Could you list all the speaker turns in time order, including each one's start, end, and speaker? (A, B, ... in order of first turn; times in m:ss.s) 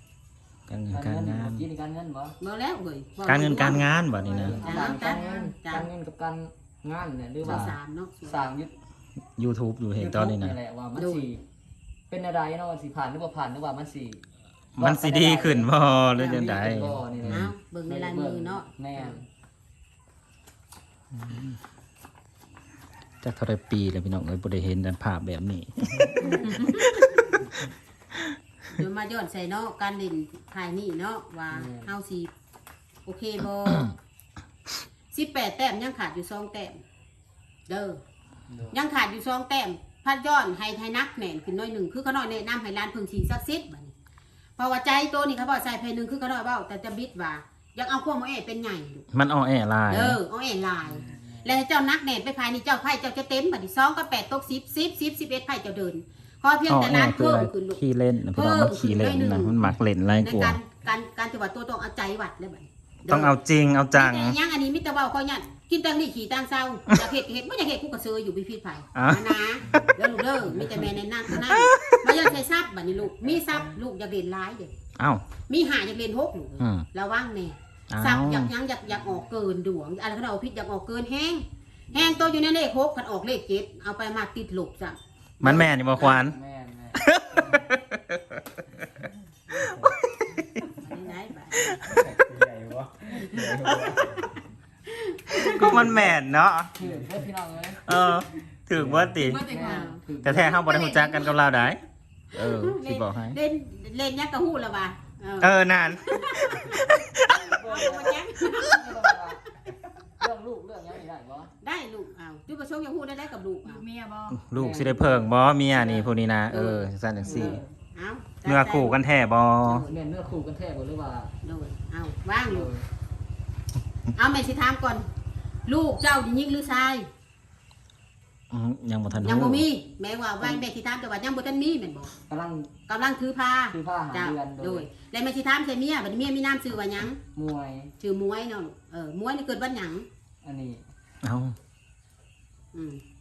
0:00.7-0:01.7 A
0:00.9-0:02.3 B
0:02.4-0:05.9 C
0:03.2-0:04.6 A
0:04.3-0:05.5 D
0:04.3-0:08.7 B
0:07.4-0:08.5 C
0:07.4-0:07.7 A
0:09.4-0:10.6 A
0:10.0-0:11.4 B
0:11.0-0:11.2 C
0:12.1-0:14.2 B
0:14.8-0:17.5 A
0:14.8-0:19.3 B
0:16.2-0:16.4 C
0:17.2-0:19.2 C
0:21.1-0:21.6 A
0:23.2-0:27.3 A
0:26.2-0:27.4 C
0:28.7-0:32.3 C
0:31.5-0:31.9 B
0:33.0-0:33.9 C
0:35.1-0:36.8 C
0:37.7-0:38.0 C
0:38.5-0:38.8 B
0:38.7-0:43.9 C
0:44.6-0:49.0 C
0:49.1-0:50.2 A
0:49.9-0:59.5 C
0:50.8-0:51.6 B
0:56.7-1:00.6 A
1:00.2-1:03.3 C
1:03.0-1:04.4 A
1:03.9-1:14.7 C
1:08.9-1:09.9 A
1:09.7-1:10.9 E
1:11.3-1:12.0 A
1:15.0-1:15.2 A
1:15.5-1:26.1 C
1:16.6-1:16.9 A
1:17.9-1:18.5 A
1:21.9-1:22.4 B
1:25.4-1:26.4 A
1:25.9-1:27.0 B
1:26.9-1:28.6 A
1:29.5-1:29.8 C
1:29.6-1:30.6 A
1:29.6-1:29.9 E
1:30.7-1:31.8 C
1:31.6-1:32.0 A
1:31.8-1:34.4 E
1:33.4-1:34.2 A
1:34.9-1:35.9 C
1:35.3-1:36.7 A
1:35.7-1:36.0 B
1:36.8-1:37.9 B
1:37.8-1:39.4 A
1:38.7-1:40.7 B
1:39.2-1:39.9 D
1:39.6-1:40.0 C
1:40.2-1:41.8 A
1:40.7-1:41.4 C
1:42.3-1:49.0 C
1:42.3-1:43.4 A
1:45.4-1:47.5 A
1:47.5-1:49.4 B
1:50.2-1:51.5 B
1:51.6-1:53.8 C
1:53.6-1:54.4 D
1:54.3-1:57.6 A
1:54.5-1:55.3 B
1:55.7-1:59.0 C
1:57.2-1:57.6 B
1:58.4-1:59.9 A
1:59.6-2:00.0 C
1:59.9-2:01.3 B
2:01.4-2:02.7 C
2:02.5-2:02.8 B
2:04.1-2:05.1 C
2:05.6-2:07.0 C
2:08.5-2:09.7 A
2:09.2-2:12.2 C
2:10.4-2:10.6 B
2:12.3-2:12.7 B
2:12.9-2:17.2 C
2:13.7-2:14.9 B
2:17.3-2:17.9 B
2:18.0-2:20.0 C
2:20.4-2:20.8 B
2:21.2-2:21.6 A
2:22.7-2:23.0 C